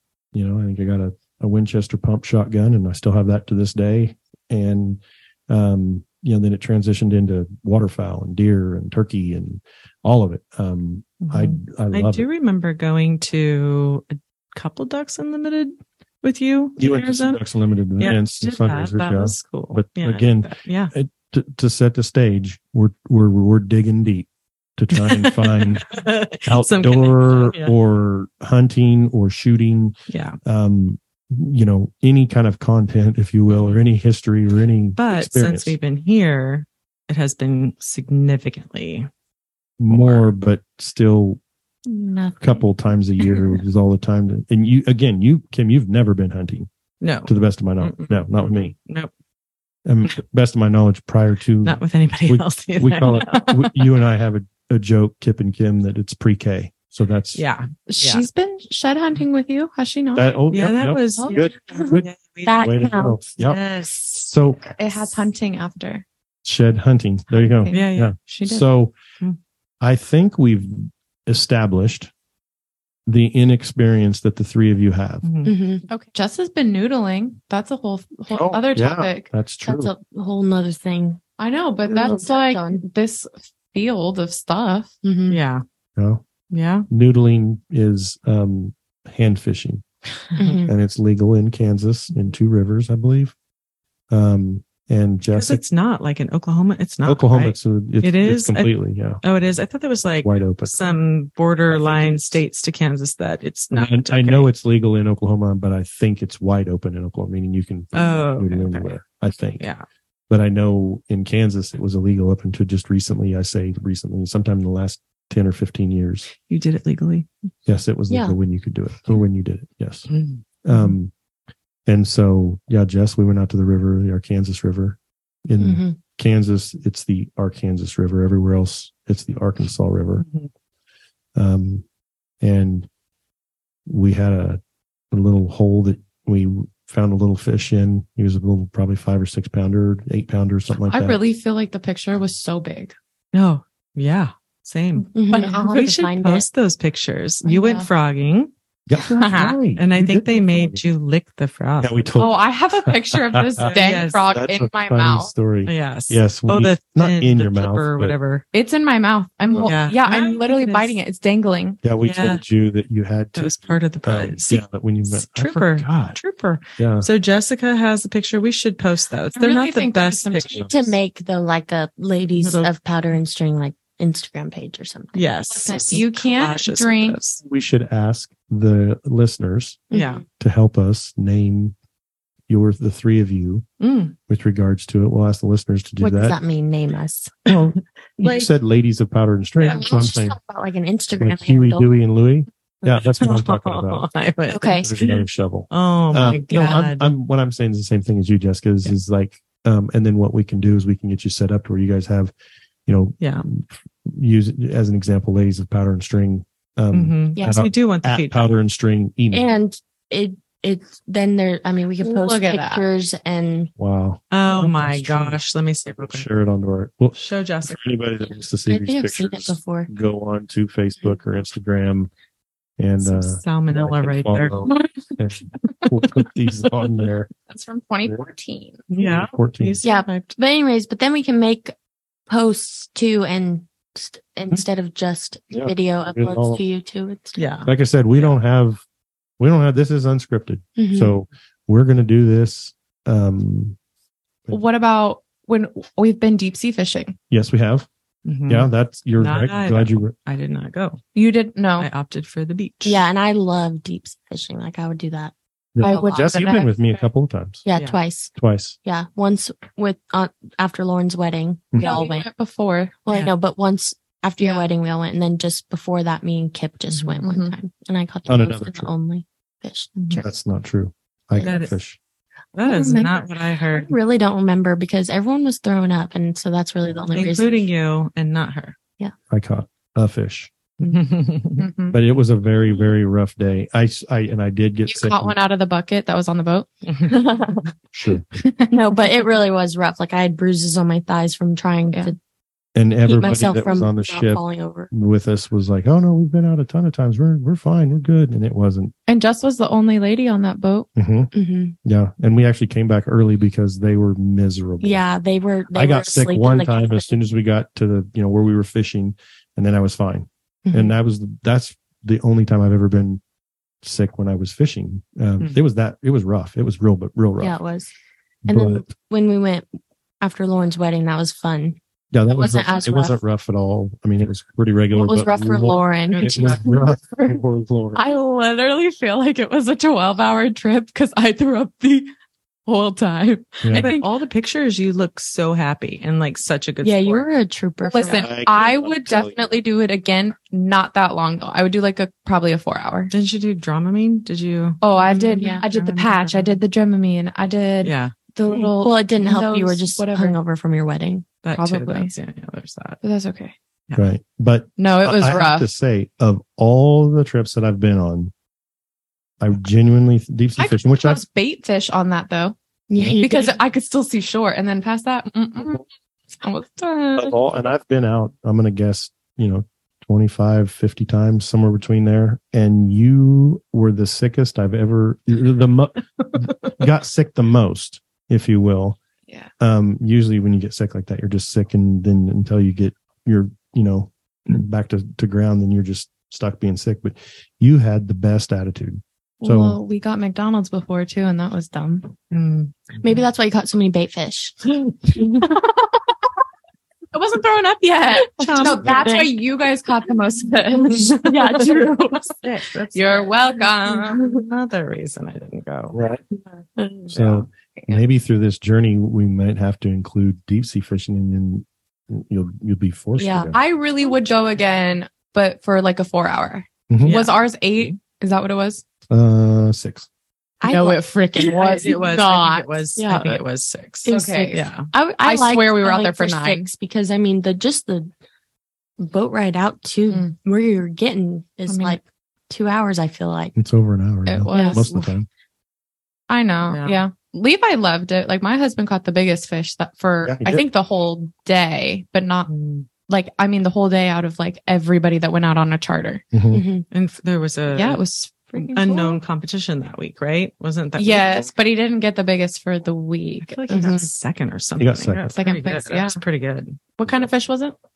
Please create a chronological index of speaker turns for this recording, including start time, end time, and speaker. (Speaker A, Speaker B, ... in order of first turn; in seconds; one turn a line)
Speaker A: 0.3-12.3
Speaker B: 11.2-17.4
Speaker A: 16.8-25.9
Speaker B: 18.0-20.9
Speaker B: 24.9-27.7
Speaker A: 26.4-35.8
Speaker B: 30.1-30.4
Speaker B: 33.5-33.8
Speaker B: 35.0-39.1
Speaker A: 39.8-41.4
Speaker B: 39.9-40.2
Speaker A: 42.4-46.7
Speaker B: 43.2-43.6
Speaker B: 47.0-49.1
Speaker A: 47.3-48.7
Speaker A: 49.9-57.4
Speaker B: 51.6-53.6
Speaker B: 57.4-58.3
Speaker C: 57.9-60.3
Speaker A: 60.1-63.6
Speaker B: 60.5-64.3
Speaker C: 61.2-61.5
Speaker D: 62.5-63.2
Speaker A: 64.2-64.7
Speaker C: 64.8-66.0
Speaker A: 66.4-69.0
Speaker C: 67.6-68.6
Speaker B: 67.7-68.6
Speaker A: 69.8-72.1
Speaker A: 73.1-75.2
Speaker B: 75.2-75.5
Speaker D: 75.5-75.8
Speaker C: 75.9-79.3
Speaker A: 78.3-79.9
Speaker D: 79.7-81.2
Speaker C: 81.4-85.0
Speaker D: 81.8-82.8
Speaker D: 85.0-85.4
Speaker B: 85.3-85.6
Speaker A: 86.0-86.2
Speaker B: 86.5-86.9
Speaker A: 86.9-89.8
Speaker D: 90.4-90.7
Speaker A: 90.7-93.3
Speaker A: 94.1-95.6
Speaker B: 95.3-104.5
Speaker A: 97.0-99.2
Speaker A: 100.2-100.8
Speaker A: 101.7-102.4
Speaker A: 103.7-109.6
Speaker B: 107.9-109.0
Speaker A: 110.3-116.3
Speaker B: 116.4-117.3
Speaker A: 117.7-120.1
Speaker D: 118.1-118.4
Speaker B: 120.1-121.0
Speaker A: 120.6-121.1
Speaker A: 121.9-130.2
Speaker D: 125.6-126.0
Speaker B: 130.2-130.5
Speaker A: 131.4-131.8
Speaker A: 132.4-132.9
Speaker A: 133.9-134.6
Speaker A: 135.1-141.2
Speaker C: 140.9-142.9
Speaker B: 143.3-148.5
Speaker C: 145.0-145.8
Speaker D: 145.2-146.5
Speaker C: 147.4-147.9
Speaker A: 148.9-150.8
Speaker B: 149.2-152.1
Speaker A: 151.8-158.2
Speaker C: 152.2-155.3
Speaker B: 153.6-154.3
Speaker B: 155.7-158.4
Speaker C: 158.5-161.8
Speaker B: 159.6-160.9
Speaker A: 161.8-166.2
Speaker B: 162.0-162.4
Speaker B: 163.4-170.5
Speaker A: 166.8-167.1
Speaker C: 169.3-170.9
Speaker D: 170.5-176.0
Speaker B: 172.4-172.7
Speaker B: 175.2-177.4
Speaker C: 175.5-177.2
Speaker A: 177.4-181.8
Speaker D: 179.9-180.2
Speaker B: 179.9-180.2
Speaker A: 182.5-183.7
Speaker B: 183.8-184.2
Speaker A: 184.3-186.4
Speaker D: 186.0-187.3
Speaker A: 187.5-190.4
Speaker B: 188.2-188.5
Speaker D: 189.7-191.9
Speaker A: 191.2-194.1
Speaker B: 193.2-197.1
Speaker D: 194.5-194.9
Speaker A: 194.8-202.3
Speaker D: 196.3-196.8
Speaker A: 202.9-209.5
Speaker B: 203.2-203.5
Speaker B: 206.9-208.5
Speaker D: 207.3-207.6
Speaker D: 209.3-213.7
Speaker C: 212.0-212.8
Speaker A: 213.8-222.1
Speaker B: 214.3-216.3
Speaker B: 217.1-217.8
Speaker D: 218.7-219.9
Speaker A: 222.8-227.3
Speaker B: 223.0-224.8
Speaker C: 227.5-228.9
Speaker B: 228.9-230.3
Speaker A: 229.0-229.8
Speaker D: 229.8-231.7
Speaker D: 232.3-237.4
Speaker A: 235.5-236.6
Speaker B: 237.4-238.3
Speaker A: 237.7-238.8
Speaker A: 239.4-243.8
Speaker D: 240.8-241.2
Speaker C: 244.5-247.2
Speaker A: 247.3-247.9
Speaker B: 248.3-251.0
Speaker A: 248.5-250.1
Speaker C: 251.2-251.9
Speaker B: 251.8-253.0
Speaker D: 252.8-256.7
Speaker A: 255.8-257.6
Speaker C: 255.8-256.9
Speaker D: 257.7-258.3
Speaker A: 258.4-258.8
Speaker D: 258.9-262.3
Speaker A: 261.7-262.0
Speaker C: 261.8-263.0
Speaker D: 263.1-270.3
Speaker C: 264.4-264.7
Speaker B: 266.9-267.2
Speaker C: 267.2-267.5
Speaker A: 268.3-268.9
Speaker B: 270.0-270.2
Speaker A: 270.2-272.0
Speaker D: 271.3-271.7
Speaker B: 271.4-271.8
Speaker B: 272.5-273.9
Speaker D: 272.7-273.1
Speaker C: 272.8-273.1
Speaker D: 273.7-277.7
Speaker B: 277.1-278.8
Speaker A: 279.3-280.7
Speaker B: 280.8-281.7
Speaker C: 281.6-282.0
Speaker A: 281.9-285.4
Speaker C: 284.9-287.1
Speaker B: 286.9-287.1
Speaker D: 287.1-287.6
Speaker A: 287.9-288.2
Speaker C: 288.4-288.8
Speaker D: 288.7-292.2
Speaker A: 292.8-298.9
Speaker D: 293.1-294.9
Speaker C: 299.1-300.9
Speaker A: 301.0-301.3
Speaker D: 301.3-301.8
Speaker A: 301.8-305.0
Speaker D: 304.8-307.2
Speaker A: 305.7-313.2
Speaker D: 310.6-310.9
Speaker A: 313.8-317.6
Speaker D: 317.4-317.9
Speaker A: 318.4-318.9
Speaker D: 318.5-319.7
Speaker D: 320.2-321.8
Speaker A: 322.1-328.0
Speaker D: 322.3-323.2
Speaker D: 324.9-326.6
Speaker C: 326.2-327.4
Speaker C: 327.9-332.1
Speaker C: 332.7-334.1
Speaker A: 333.6-333.9
Speaker B: 333.7-337.3
Speaker D: 336.8-338.3
Speaker C: 337.8-343.1
Speaker A: 338.1-339.4
Speaker B: 343.1-346.6
Speaker C: 344.8-350.4
Speaker D: 345.4-345.6
Speaker B: 347.8-348.1
Speaker D: 348.5-351.3
Speaker B: 351.4-353.0
Speaker C: 351.6-352.1
Speaker C: 353.0-353.6
Speaker A: 353.9-358.3
Speaker C: 354.8-355.7
Speaker A: 359.4-361.2
Speaker C: 360.6-365.8
Speaker D: 362.9-363.6
Speaker C: 366.4-367.4
Speaker A: 367.2-379.0
Speaker A: 379.6-389.8
Speaker C: 389.4-392.1
Speaker B: 392.3-392.9
Speaker D: 393.0-394.6
Speaker D: 395.1-395.5
Speaker C: 395.4-396.2
Speaker C: 397.1-402.3
Speaker B: 398.4-399.1
Speaker D: 398.6-399.4
Speaker B: 400.9-401.7
Speaker D: 401.2-402.2
Speaker B: 402.2-406.0
Speaker C: 402.9-404.4
Speaker A: 405.9-406.2
Speaker D: 406.8-407.2
Speaker A: 407.1-413.6
Speaker C: 407.2-408.0
Speaker D: 413.2-413.5
Speaker C: 413.5-418.8
Speaker A: 416.9-417.2
Speaker B: 417.0-417.4
Speaker A: 419.1-420.1
Speaker D: 420.6-423.4
Speaker C: 420.6-422.2
Speaker B: 421.4-424.9
Speaker D: 424.1-428.1
Speaker C: 424.1-424.7
Speaker C: 425.2-426.7
Speaker D: 429.0-433.5
Speaker C: 430.1-430.3
Speaker C: 431.7-432.0
Speaker A: 433.6-435.3
Speaker C: 434.3-435.1
Speaker D: 434.5-434.9
Speaker C: 436.3-442.5
Speaker B: 436.7-437.0
Speaker A: 440.2-440.6
Speaker B: 442.5-442.9
Speaker C: 443.1-446.2
Speaker A: 446.3-446.6
Speaker D: 446.5-446.9
Speaker B: 446.9-448.0
Speaker C: 447.7-449.2
Speaker B: 448.6-451.4
Speaker C: 451.0-454.1
Speaker B: 453.4-456.8
Speaker A: 454.8-455.2
Speaker C: 455.3-456.2
Speaker C: 457.0-457.8